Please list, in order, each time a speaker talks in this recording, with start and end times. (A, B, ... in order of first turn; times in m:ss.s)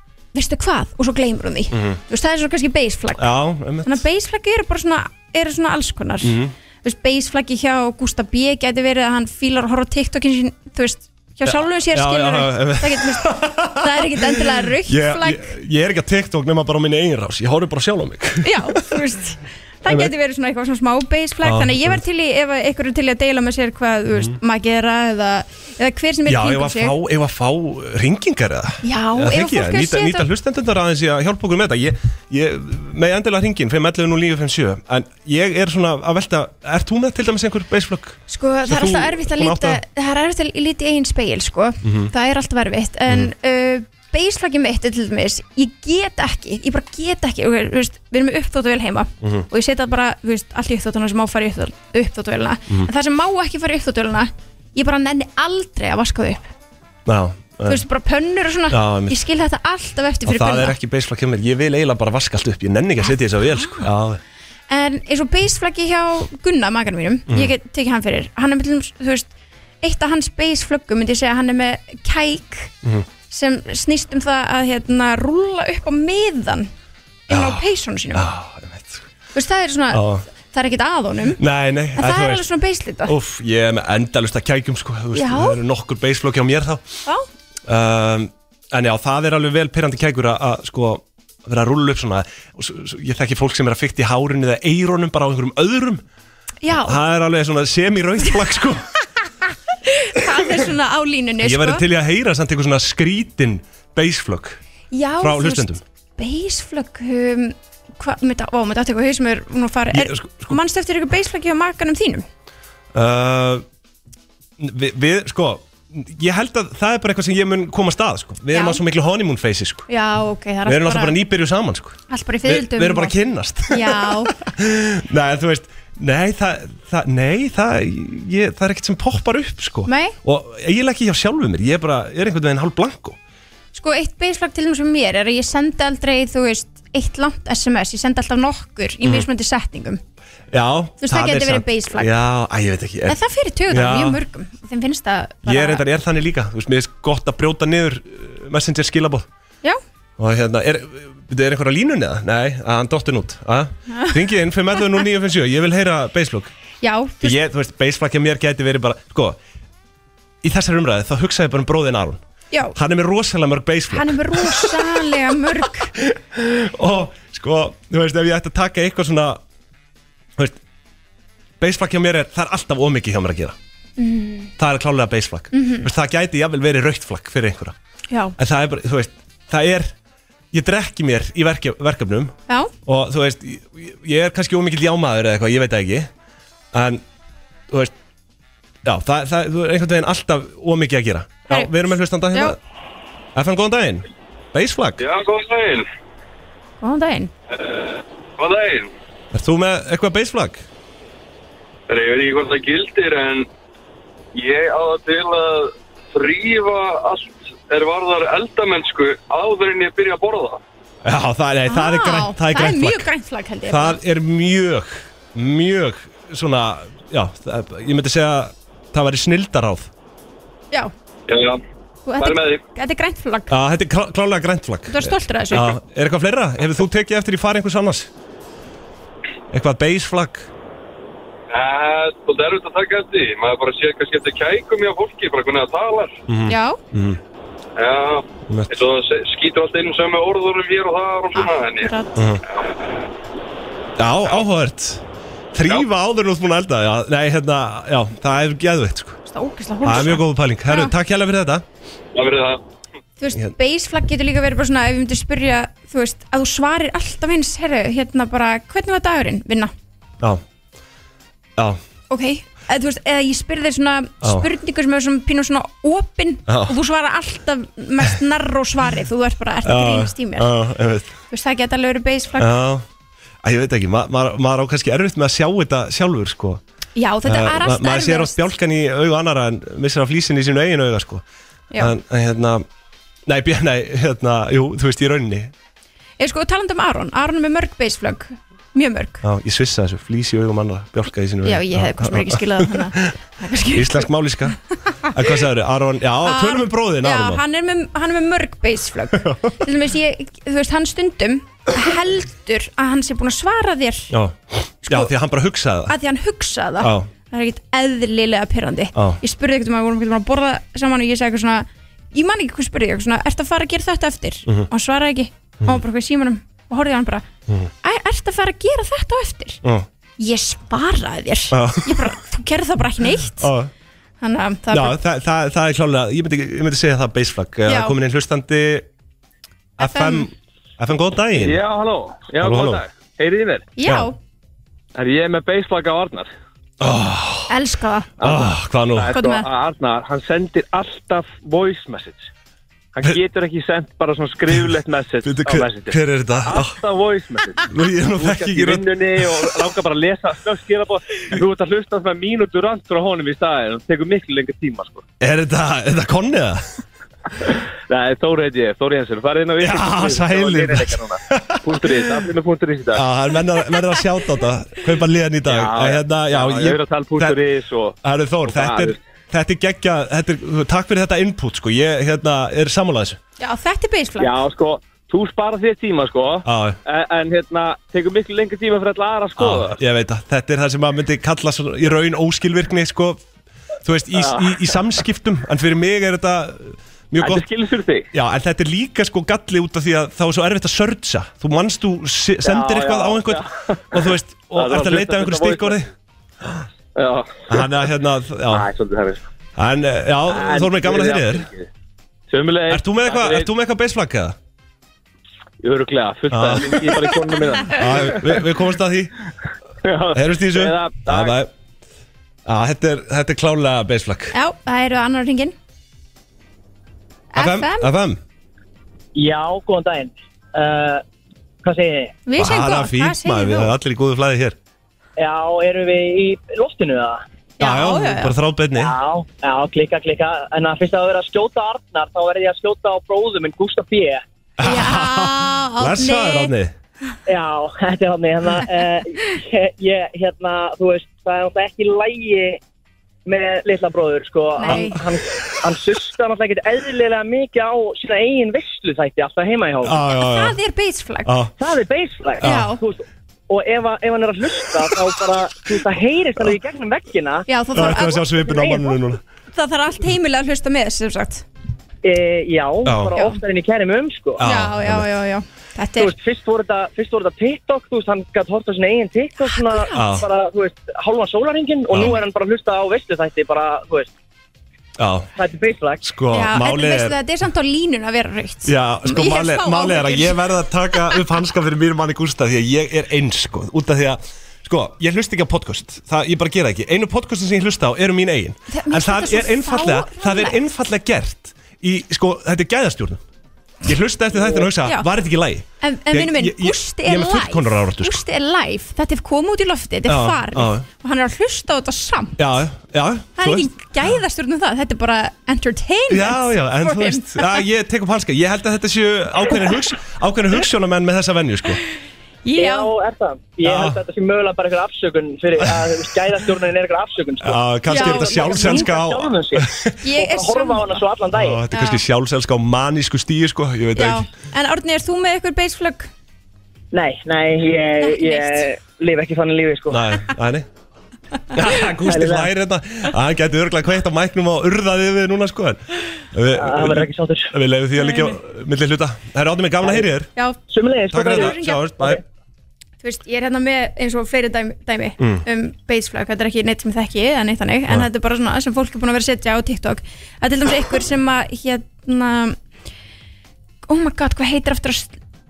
0:00.3-0:03.3 A
0:01.7-0:02.0 B
0:03.2-0:04.0 B
0:03.8-0:15.5 A
0:06.2-0:06.5 B
0:11.5-0:19.0 B
0:18.4-0:27.0 A
0:19.9-0:20.1 B
0:21.4-0:22.0 B
0:26.3-0:39.8 B
0:28.8-0:30.3 A
0:38.3-0:56.5 A
0:41.8-0:42.1 B
0:49.2-0:49.5 B
0:57.1-0:57.8 B
0:57.7-1:00.8 A
0:58.7-0:59.2 B
1:00.3-1:04.2 B
1:03.4-1:03.9 A
1:04.7-1:09.3 A
1:09.8-1:12.7 A
1:13.3-1:16.7 A
1:17.3-1:18.3 A
1:17.3-1:17.6 B
1:18.1-1:19.1 B
1:19.3-1:21.4 A
1:19.9-1:20.3 B
1:21.4-1:22.5 B
1:22.0-1:23.2 A
1:23.1-1:26.8 B
1:25.1-1:25.6 A
1:27.7-1:36.0 B
1:36.6-1:37.0 A
1:36.8-1:38.9 B
1:39.9-1:41.8 A
1:41.4-1:44.6 B
1:44.9-1:52.3 A
1:45.2-1:45.8 B
1:49.9-1:50.6 B
1:52.9-1:53.6 B
1:54.6-1:59.9 B
1:58.5-1:58.8 A
1:59.9-2:01.2 A
2:00.7-2:13.2 B
2:02.1-2:03.2 A
2:03.7-2:04.3 A
2:09.9-2:10.2 A
2:13.7-2:20.0 A
2:20.5-2:23.2 B
2:21.0-2:22.1 A
2:23.1-2:25.8 A
2:23.7-2:24.2 B
2:25.4-2:29.3 B
2:30.2-2:36.5 B
2:33.9-2:34.2 A
2:36.8-2:37.4 A
2:37.2-2:39.4 B
2:40.4-2:42.2 B
2:42.8-2:45.1 B
2:43.9-2:45.9 A
2:46.0-2:49.4 B
2:51.6-2:53.6 B
2:54.0-2:54.5 A
2:54.6-2:57.8 B
2:55.5-2:55.9 A
2:58.1-2:58.4 A
2:58.4-2:59.9 B
3:00.5-3:06.1 B
3:06.7-3:07.0 B
3:08.8-3:12.6 B
3:11.5-3:11.7 A
3:13.4-3:15.0 B
3:15.0-3:15.8 C
3:16.8-3:17.3 A
3:17.6-3:18.9 C
3:19.3-3:20.6 B
3:21.9-3:23.5 C
3:24.3-3:30.6 C
3:31.0-3:33.1 B
3:31.7-3:34.0 A
3:33.7-3:39.9 B
3:41.3-3:41.6 C
3:42.1-3:43.5 A
3:42.2-3:42.6 C
3:43.5-3:48.1 B
3:44.9-3:45.8 A
3:49.5-3:50.5 B
3:51.5-3:56.2 C
3:56.3-3:57.2 B
3:56.5-3:56.8 A
3:57.8-4:01.9 C
3:58.5-3:58.7 B
4:01.4-4:02.2 A
4:02.2-4:02.4 B
4:04.0-4:05.0 B
4:05.5-4:09.2 B
4:09.3-4:10.9 A
4:09.8-4:11.6 B
4:12.1-4:12.6 C
4:13.2-4:19.7 A
4:22.1-4:30.5 A
4:24.2-4:24.5 B
4:26.5-4:26.8 B
4:29.6-4:31.2 B
4:31.3-4:32.5 A
4:32.4-4:32.8 B
4:33.4-4:36.6 B
4:37.0-4:38.4 A
4:37.2-4:41.2 B
4:41.8-4:42.6 B
4:43.3-4:45.5 B
4:46.2-4:49.2 A
4:49.2-4:53.2 B
4:51.4-4:54.1 A
4:53.7-4:57.4 B
4:56.2-5:04.1 A
4:59.2-4:59.6 B
5:04.1-5:06.0 B
5:04.8-5:05.1 A
5:05.9-5:17.3 A
5:06.8-5:07.1 B
5:17.8-5:19.6 A
5:20.2-5:23.5 A
5:21.5-5:22.2 B
5:23.4-5:23.7 B
5:24.2-5:25.0 A
5:24.7-5:28.9 B
5:27.7-5:28.0 A
5:29.8-5:30.3 A
5:29.8-5:31.6 B
5:31.4-5:33.7 D
5:32.4-5:32.8 B
5:33.8-5:34.2 A
5:33.8-5:34.1 B
5:35.0-5:36.3 D
5:36.8-5:37.5 B
5:37.5-5:38.1 A
5:38.2-5:42.3 D
5:38.2-5:39.1 B
5:39.1-5:39.5 A
5:42.9-5:55.0 D
5:45.2-5:46.8 B
5:47.7-5:49.5 B
5:55.2-5:56.6 B
5:57.9-6:03.1 D
5:59.6-6:02.3 B
6:02.9-6:07.4 B
6:05.5-6:08.0 D
6:08.0-6:13.2 B
6:08.5-6:09.0 D
6:13.4-6:14.3 A
6:14.2-6:19.8 D
6:16.4-6:16.8 B
6:19.4-6:23.2 B
6:23.8-6:27.5 B
6:24.2-6:24.7 D
6:27.2-6:28.1 D
6:28.1-6:35.9 B
6:32.4-6:35.9 D
6:37.0-6:37.7 D
6:37.5-6:38.7 B
6:38.5-6:39.2 D
6:39.6-6:41.5 B
6:40.3-6:41.7 D
6:42.3-6:43.5 D
6:42.7-6:44.4 B
6:45.6-6:48.3 D
6:46.3-6:47.1 B
6:47.7-6:49.1 B
6:49.8-6:51.4 D
6:50.1-6:51.5 B
6:52.5-6:54.3 B
6:54.3-6:55.6 A
6:57.3-6:57.9 A
6:57.4-6:58.2 B
6:59.2-7:01.0 E
7:01.6-7:02.2 E
7:02.3-7:03.7 A
7:02.4-7:04.6 B
7:05.2-7:07.2 E
7:07.6-7:08.4 A
7:07.6-7:08.9 B
7:08.8-7:14.2 E
7:14.6-7:16.7 B
7:14.6-7:16.5 A
7:17.3-7:22.6 E
7:23.3-7:30.0 E
7:24.6-7:25.0 A
7:24.6-7:25.1 B
7:29.8-7:30.6 B
7:30.1-7:31.3 A
7:31.2-7:31.5 B
7:31.6-7:37.5 E
7:32.4-7:32.8 A
7:32.4-7:32.7 B
7:37.5-7:38.9 A
7:37.7-7:39.2 B
7:39.5-7:41.4 A
7:42.0-7:44.4 E
7:42.8-7:43.2 B
7:43.2-7:43.4 A
7:44.4-7:45.1 B
7:44.4-7:46.1 A
7:46.0-7:54.1 E
7:49.4-7:50.1 A
7:49.9-7:50.3 B
7:51.9-7:52.2 B
7:55.0-7:55.3 B
7:55.4-7:56.0 E
7:56.0-7:57.2 B
7:56.3-8:00.4 A
7:58.6-8:13.2 B
8:00.9-8:01.2 A
8:08.7-8:10.6 A
8:13.8-8:18.2 B
8:14.8-8:15.1 A
8:15.8-8:22.4 A
8:20.1-8:20.9 B
8:22.4-8:23.7 B
8:23.4-8:27.6 A
8:26.1-8:31.8 B
8:32.4-8:32.9 A
8:32.6-8:41.6 E
8:33.6-8:34.0 B
8:35.6-8:35.9 B
8:37.4-8:40.0 B
8:37.9-8:38.9 A
8:40.0-8:41.0 A
8:41.3-8:44.3 B
8:41.7-8:42.0 A
8:44.0-8:46.1 A
8:46.9-8:50.1 E
8:48.0-8:48.7 A
8:49.9-8:50.7 B
8:51.5-9:00.3 B
8:52.0-8:52.5 E
8:56.5-8:57.5 E
8:58.0-8:58.4 A
9:00.7-9:02.2 E
9:01.1-9:02.2 B
9:01.2-9:01.9 A
9:03.0-9:12.6 A
9:05.2-9:05.4 B
9:13.9-9:15.2 A